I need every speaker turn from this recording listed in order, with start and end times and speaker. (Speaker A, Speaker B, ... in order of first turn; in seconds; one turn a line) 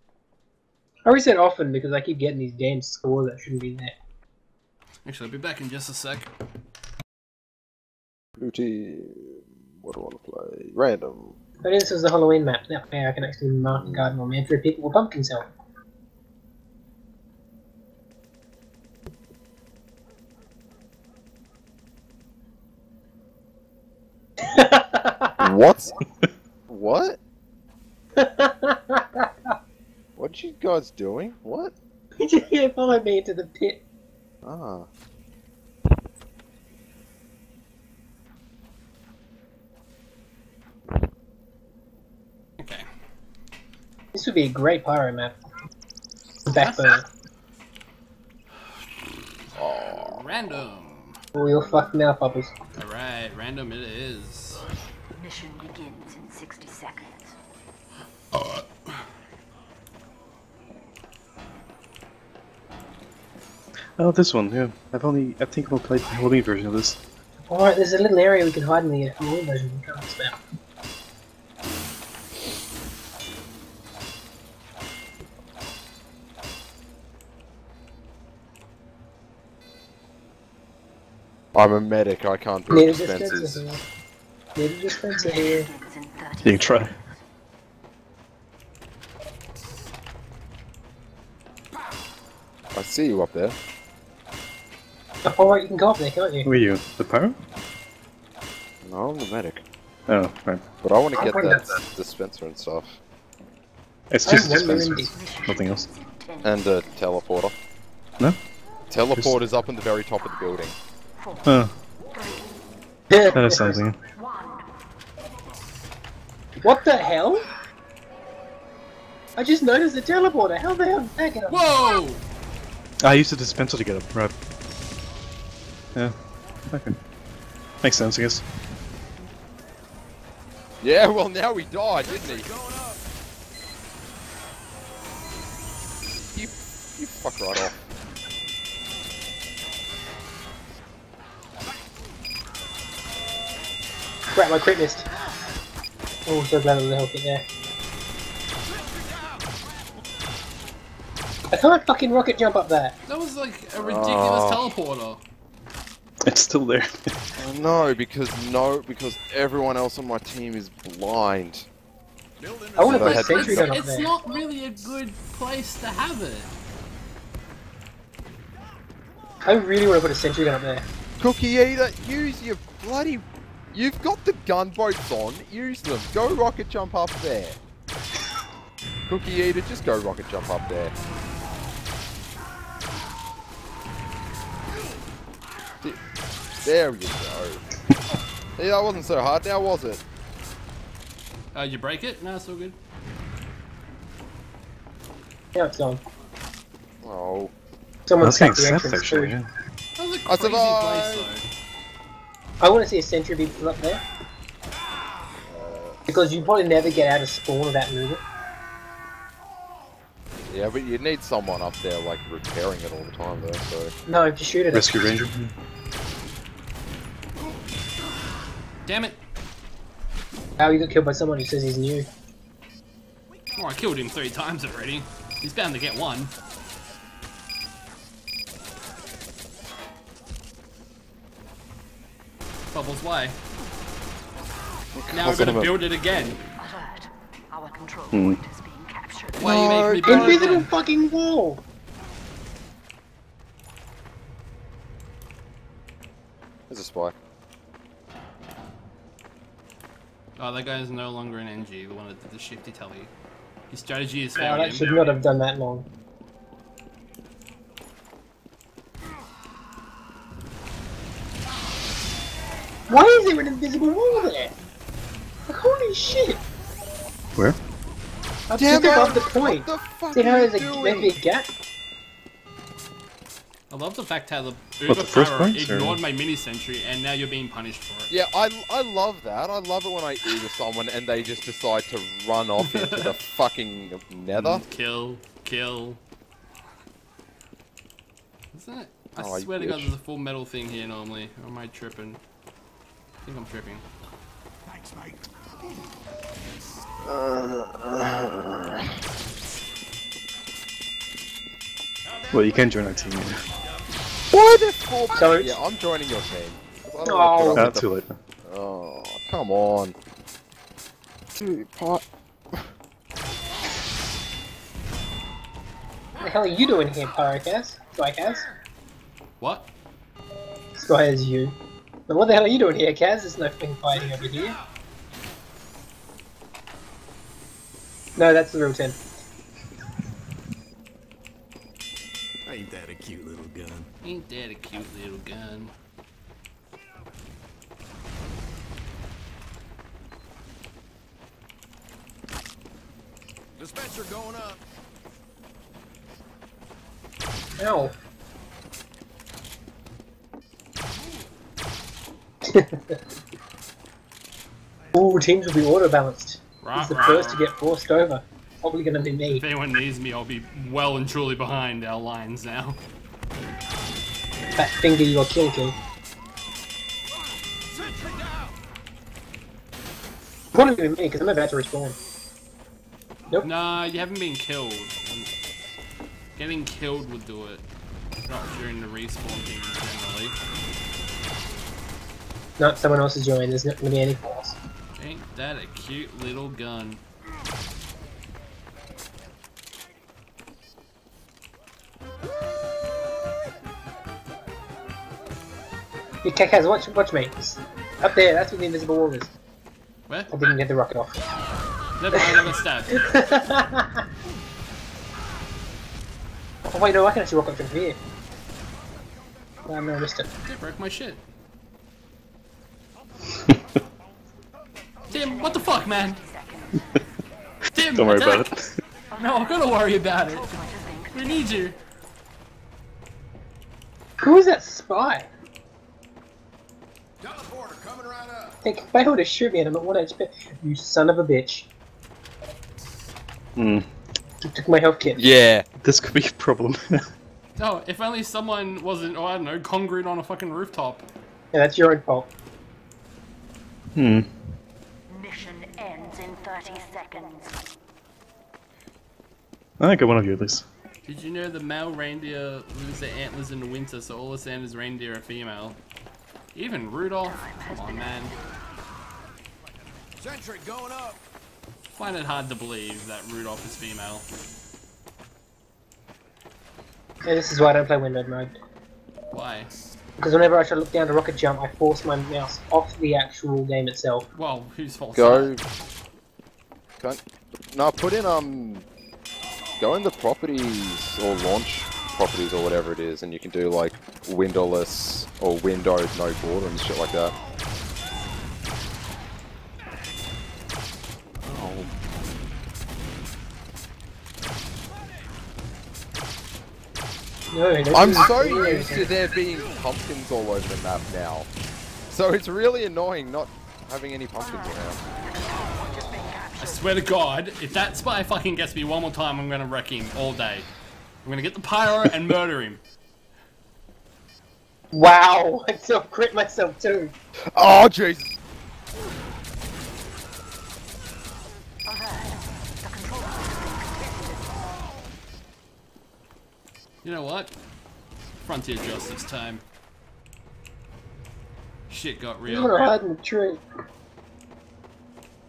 Speaker A: 1.1-3.9
Speaker B: 5.0-6.3
Speaker C: 8.4-11.4
Speaker A: 11.6-15.5
Speaker C: 13.8-14.1
Speaker A: 24.4-25.5
Speaker C: 25.4-26.0
Speaker C: 26.7-27.2
Speaker A: 28.2-29.5
Speaker C: 30.2-31.7
Speaker A: 32.2-33.8
Speaker C: 34.4-34.9
Speaker B: 42.6-42.9
Speaker A: 44.1-45.4
Speaker A: 46.5-47.1
Speaker B: 46.5-46.9
Speaker C: 49.5-50.2
Speaker B: 49.9-51.2
Speaker A: 51.4-52.5
Speaker B: 52.8-54.6
Speaker D: 55.1-57.4
Speaker B: 58.3-58.9
Speaker E: 64.0-67.0
Speaker A: 67.5-70.4
Speaker C: 81.5-83.6
Speaker A: 82.7-83.8
Speaker A: 84.6-85.7
Speaker D: 85.1-87.2
Speaker E: 86.4-87.0
Speaker C: 92.7-93.6
Speaker A: 95.2-96.5
Speaker E: 96.4-97.4
Speaker C: 98.8-99.6
Speaker E: 100.1-100.6
Speaker C: 100.8-103.0
Speaker A: 101.2-101.7
Speaker E: 104.1-105.9
Speaker A: 104.2-105.1
Speaker D: 105.1-106.8
Speaker C: 106.4-107.5
Speaker C: 108.9-110.8
Speaker D: 110.2-110.5
Speaker D: 111.2-111.5
Speaker E: 111.5-111.7
Speaker D: 112.1-112.5
Speaker A: 113.1-113.8
Speaker E: 113.3-114.0
Speaker D: 114.1-114.7
Speaker A: 116.6-117.5
Speaker A: 119.4-121.8
Speaker B: 121.5-122.2
Speaker E: 123.0-124.3
Speaker E: 126.7-127.0
Speaker E: 127.8-128.4
Speaker C: 130.8-132.5
Speaker F: 132.0-133.0
Speaker C: 136.3-137.8
Speaker A: 144.3-145.1
Speaker A: 146.3-147.5
Speaker A: 151.5-153.0
Speaker B: 153.1-155.2
Speaker C: 153.8-154.7
Speaker E: 156.2-157.1
Speaker C: 157.4-161.7
Speaker F: 162.4-163.3
Speaker A: 162.8-164.1
Speaker C: 162.8-163.7
Speaker B: 162.9-166.5
Speaker A: 169.4-170.9
Speaker C: 171.2-177.6
Speaker C: 179.1-180.9
Speaker C: 186.6-187.6
Speaker C: 188.6-190.0
Speaker B: 191.5-192.8
Speaker A: 195.6-196.0
Speaker C: 197.0-197.5
Speaker A: 198.1-199.3
Speaker E: 198.2-199.5
Speaker B: 200.0-201.4
Speaker C: 200.3-201.3
Speaker A: 202.6-204.0
Speaker C: 205.5-206.0
Speaker A: 206.1-208.2
Speaker C: 210.5-213.9
Speaker A: 214.1-215.2
Speaker E: 214.7-215.5
Speaker B: 218.9-219.2
Speaker A: 220.6-222.1
Speaker B: 223.6-226.3
Speaker B: 232.7-233.4
Speaker C: 234.9-235.8
Speaker B: 235.1-236.4
Speaker D: 236.6-239.8
Speaker E: 238.1-238.4
Speaker C: 239.4-240.7
Speaker B: 239.4-240.7
Speaker A: 240.0-241.6
Speaker C: 246.7-247.2
Speaker B: 250.4-253.1
Speaker B: 253.7-255.0
Speaker A: 254.4-255.9
Speaker A: 262.9-264.5
Speaker A: 265.5-266.4
Speaker A: 268.5-271.5
Speaker C: 268.6-271.1
Speaker B: 273.7-278.1
Speaker E: 274.9-276.0
Speaker C: 278.1-284.6
Speaker B: 282.6-283.1
Speaker B: 284.3-286.0
Speaker B: 288.5-292.2
Speaker C: 289.2-289.9
Speaker B: 293.2-293.8
Speaker F: 294.7-295.3
Speaker C: 297.0-298.9
Speaker F: 302.1-303.9
Speaker E: 302.3-303.4
Speaker C: 304.3-307.9
Speaker A: 305.1-305.6
Speaker A: 307.0-307.7
Speaker E: 307.6-308.2
Speaker C: 308.4-309.9
Speaker C: 311.4-312.7
Speaker A: 316.2-318.5
Speaker B: 319.4-319.7
Speaker A: 320.8-321.6
Speaker A: 322.1-324.6
Speaker A: 328.2-329.0
Speaker F: 332.5-333.9
Speaker B: 334.0-335.7
Speaker F: 343.6-344.6
Speaker A: 347.6-347.9
Speaker A: 352.4-353.0
Speaker A: 354.9-359.5
Speaker B: 356.6-357.4
Speaker B: 359.3-362.8
Speaker A: 364.6-365.8
Speaker F: 367.8-368.5
Speaker A: 370.5-372.0
Speaker B: 373.4-375.3
Speaker B: 376.4-377.6
Speaker B: 378.3-380.4
Speaker A: 382.6-384.6
Speaker B: 385.0-387.0
Speaker A: 396.2-399.3
Speaker A: 400.3-401.2
Speaker B: 402.0-403.1
Speaker A: 402.1-404.0
Speaker A: 406.7-408.0
Speaker A: 409.7-410.3
Speaker B: 410.5-411.2
Speaker D: 415.1-417.0
Speaker B: 415.1-416.2
Speaker B: 417.7-418.5
Speaker E: 417.9-418.7
Speaker B: 419.1-420.5
Speaker D: 419.2-421.7
Speaker B: 421.1-421.8
Speaker A: 424.2-425.3
Speaker F: 427.2-428.6
Speaker A: 428.6-431.7
Speaker E: 433.6-433.9
Speaker A: 434.4-435.2
Speaker C: 435.1-435.7
Speaker E: 435.8-437.0
Speaker B: 437.6-441.1
Speaker A: 441.5-442.3
Speaker E: 443.9-444.3
Speaker D: 445.1-447.6
Speaker E: 449.8-450.7
Speaker B: 451.1-455.8
Speaker B: 456.6-458.3
Speaker D: 457.2-458.3
Speaker F: 460.2-461.2
Speaker B: 461.9-464.2
Speaker A: 467.2-468.6
Speaker B: 469.3-469.7
Speaker A: 470.2-474.3
Speaker B: 474.3-475.5
Speaker C: 475.1-475.6
Speaker C: 477.0-478.9
Speaker C: 479.8-487.4
Speaker C: 491.4-491.9
Speaker A: 497.5-499.1
Speaker C: 497.9-501.5
Speaker C: 502.1-505.0
Speaker D: 504.4-506.9
Speaker B: 506.6-510.7
Speaker B: 511.2-512.8
Speaker A: 514.9-517.1
Speaker C: 517.5-518.3
Speaker D: 521.9-524.2
Speaker B: 527.0-527.5
Speaker B: 528.4-529.6
Speaker B: 531.9-532.9
Speaker A: 532.5-533.6